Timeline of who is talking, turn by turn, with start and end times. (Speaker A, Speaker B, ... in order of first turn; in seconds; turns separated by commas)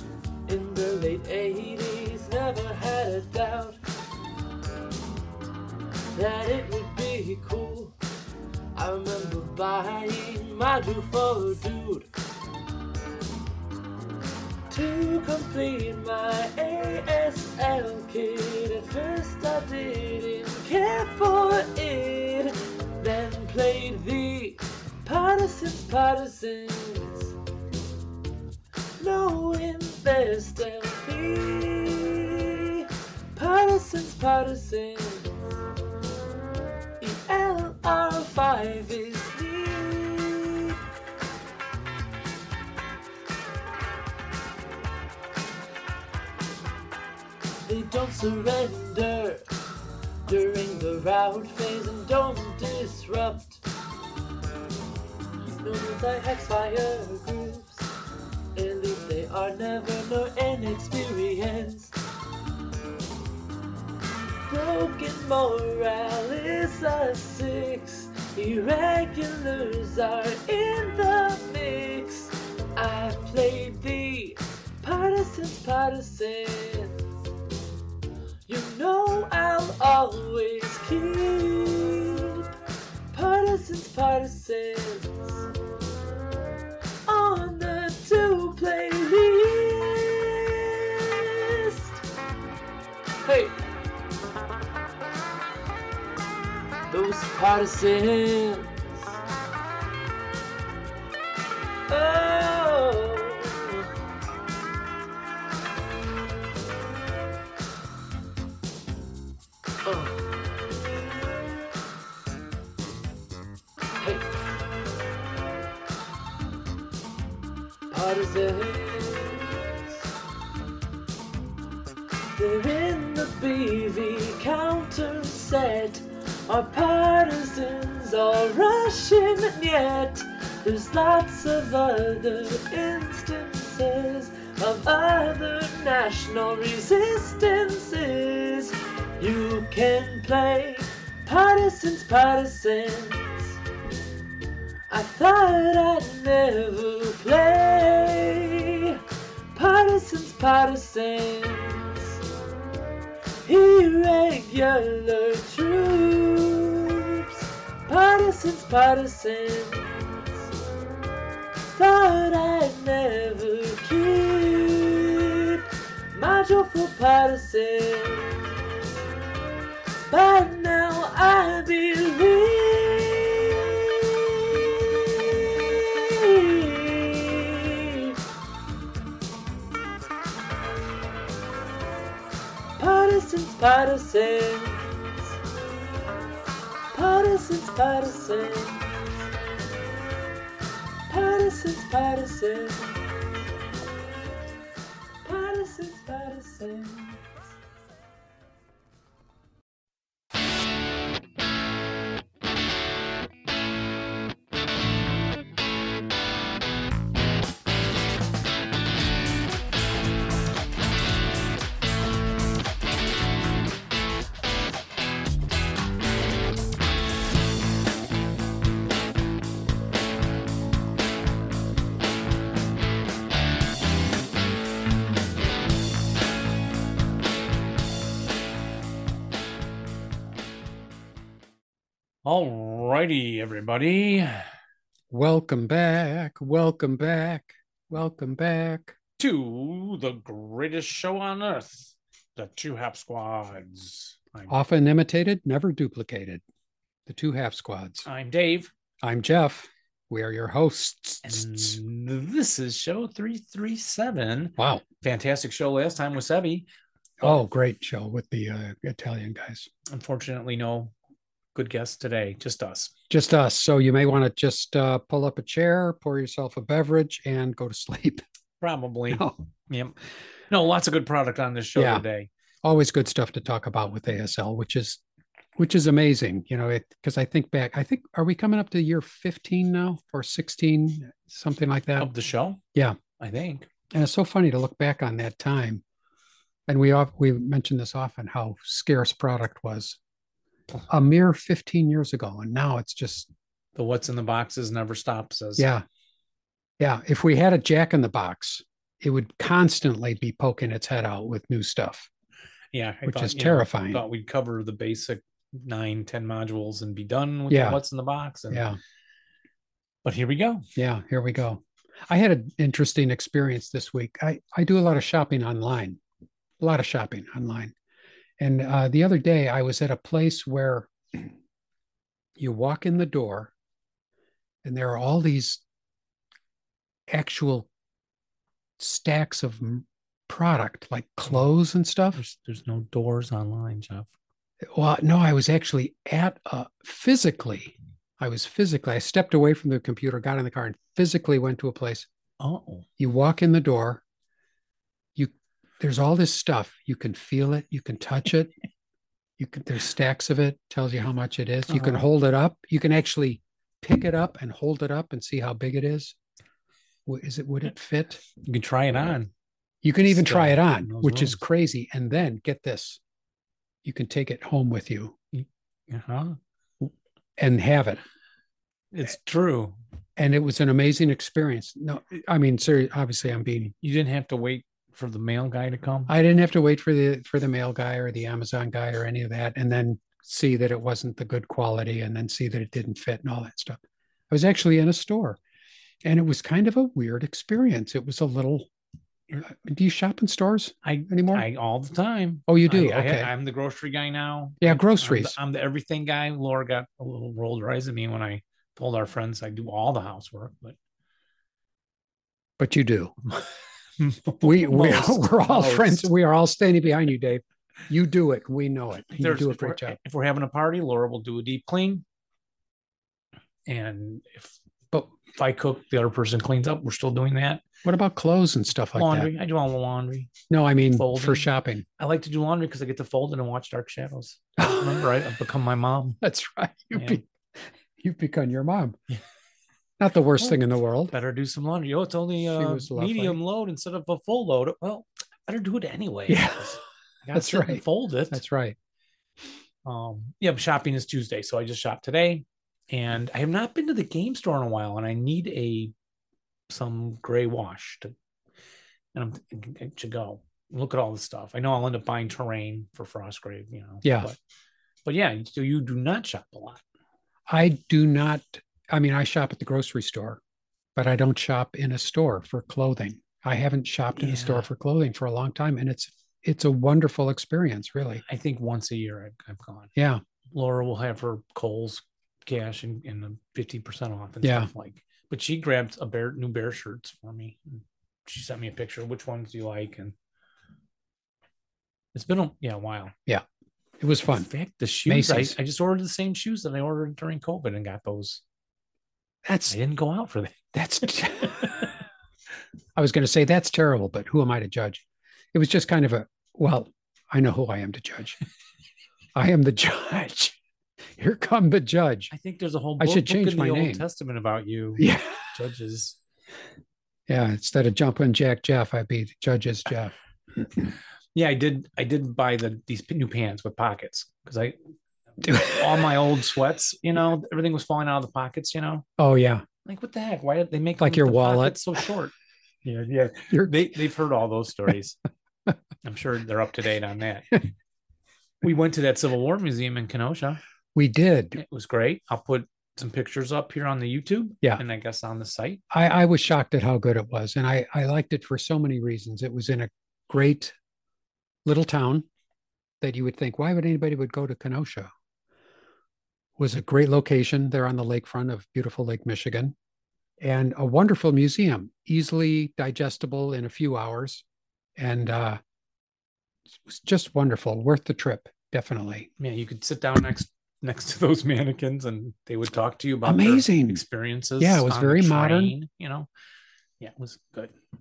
Speaker A: 0.5-3.8, Speaker A: 6.1-8.0, Speaker A: 8.7-12.1, Speaker A: 14.7-27.4, Speaker A: 29.0-35.6, Speaker A: 37.0-40.8, Speaker A: 47.6-49.5, Speaker A: 50.3-53.6, Speaker A: 55.6-57.9, Speaker A: 58.5-61.9, Speaker A: 64.5-77.0, Speaker A: 78.5-82.5, Speaker A: 83.1-85.5, Speaker A: 87.1-92.0, Speaker A: 93.2-93.5, Speaker A: 96.9-99.2, Speaker A: 101.9-103.9, Speaker A: 109.8-110.2, Speaker A: 114.0-114.3, Speaker A: 117.9-120.0, Speaker A: 122.3-143.6, Speaker A: 144.9-149.0, Speaker A: 149.5-152.2, Speaker A: 153.4-160.5, Speaker A: 161.7-168.6, Speaker A: 170.1-178.2, Speaker A: 182.8-185.3, Speaker A: 186.9-189.1, Speaker A: 191.1-193.2, Speaker A: 195.2-197.2, Speaker B: 232.2-234.5, Speaker C: 235.1-238.9, Speaker B: 239.2-244.5, Speaker C: 244.5-246.4, Speaker C: 247.1-248.1, Speaker B: 248.0-248.7, Speaker C: 249.0-251.8, Speaker B: 251.2-256.6, Speaker C: 254.6-254.8, Speaker C: 257.2-259.7, Speaker B: 259.9-260.9, Speaker B: 261.5-262.9, Speaker C: 263.1-268.2, Speaker B: 268.6-269.9, Speaker C: 269.1-269.4, Speaker B: 270.5-272.3, Speaker C: 271.8-272.0, Speaker C: 272.6-275.0, Speaker C: 275.6-282.1, Speaker B: 282.0-282.6, Speaker B: 283.2-283.7, Speaker C: 283.9-285.8, Speaker C: 286.7-290.0, Speaker C: 290.9-293.3, Speaker B: 293.8-295.7, Speaker C: 295.6-295.8, Speaker C: 296.8-302.1, Speaker B: 302.7-308.6, Speaker C: 303.1-304.0, Speaker C: 307.5-307.8, Speaker C: 308.5-308.8, Speaker B: 310.0-310.6, Speaker C: 310.8-316.0, Speaker C: 316.6-317.7, Speaker C: 318.4-321.3, Speaker C: 322.4-323.5, Speaker C: 324.6-325.6, Speaker C: 327.1-327.7, Speaker C: 328.8-332.2, Speaker B: 332.1-334.1, Speaker C: 334.7-342.1, Speaker B: 342.4-342.9, Speaker C: 343.0-344.0, Speaker C: 345.1-348.5, Speaker C: 349.4-356.1, Speaker B: 351.7-352.0, Speaker C: 357.1-358.2, Speaker B: 358.4-359.3, Speaker C: 359.8-363.0, Speaker B: 360.1-361.4, Speaker C: 363.8-365.1, Speaker B: 365.3-366.4, Speaker C: 366.8-368.0, Speaker B: 368.9-369.7, Speaker C: 370.2-373.7, Speaker B: 373.8-376.1, Speaker C: 376.1-383.8, Speaker C: 384.3-385.4, Speaker C: 386.0-388.7, Speaker C: 389.3-391.4, Speaker B: 390.8-400.8, Speaker C: 392.5-393.3, Speaker C: 394.6-395.4, Speaker C: 402.6-403.1, Speaker B: 404.0-406.1, Speaker C: 404.4-410.0, Speaker B: 409.2-412.0, Speaker B: 413.7-414.5, Speaker B: 415.2-417.6, Speaker C: 417.8-419.3, Speaker B: 418.9-420.3, Speaker C: 420.5-421.8, Speaker B: 420.9-426.2, Speaker C: 424.6-425.0, Speaker C: 426.2-427.2, Speaker B: 426.9-427.2, Speaker C: 428.0-429.0, Speaker C: 430.0-431.1, Speaker B: 430.4-438.4, Speaker C: 432.6-433.4, Speaker C: 436.3-436.8, Speaker C: 437.3-438.8, Speaker B: 439.8-445.9, Speaker B: 446.7-448.1, Speaker B: 449.1-454.4, Speaker C: 454.0-454.3, Speaker B: 455.1-456.8, Speaker C: 457.5-460.4, Speaker C: 460.9-468.2, Speaker B: 464.2-464.7, Speaker B: 468.2-469.9, Speaker C: 469.9-470.2, Speaker B: 470.5-480.1, Speaker C: 474.4-474.7, Speaker B: 482.1-483.1, Speaker C: 484.0-484.5, Speaker B: 484.3-488.4, Speaker C: 485.1-485.6, Speaker C: 489.4-489.7, Speaker B: 489.7-491.9, Speaker C: 490.7-491.8, Speaker C: 492.9-498.4, Speaker C: 499.3-500.6, Speaker C: 501.2-502.3, Speaker B: 502.3-506.2, Speaker C: 503.0-504.0, Speaker C: 505.0-505.5, Speaker C: 507.3-510.1, Speaker B: 511.3-514.8, Speaker B: 515.4-519.0, Speaker C: 515.4-515.8, Speaker C: 519.2-519.6, Speaker B: 519.8-522.3, Speaker C: 521.0-521.8, Speaker B: 522.8-525.2, Speaker C: 523.5-523.8, Speaker B: 526.0-527.6, Speaker B: 528.6-530.6, Speaker C: 530.9-531.6, Speaker B: 531.5-535.8, Speaker C: 535.9-540.7, Speaker C: 541.6-542.3, Speaker C: 543.0-545.1, Speaker C: 546.6-549.7, Speaker C: 550.4-554.4, Speaker C: 555.0-555.6, Speaker C: 556.8-559.3, Speaker B: 559.4-566.3, Speaker C: 563.2-564.0, Speaker C: 564.6-565.7, Speaker B: 567.0-567.7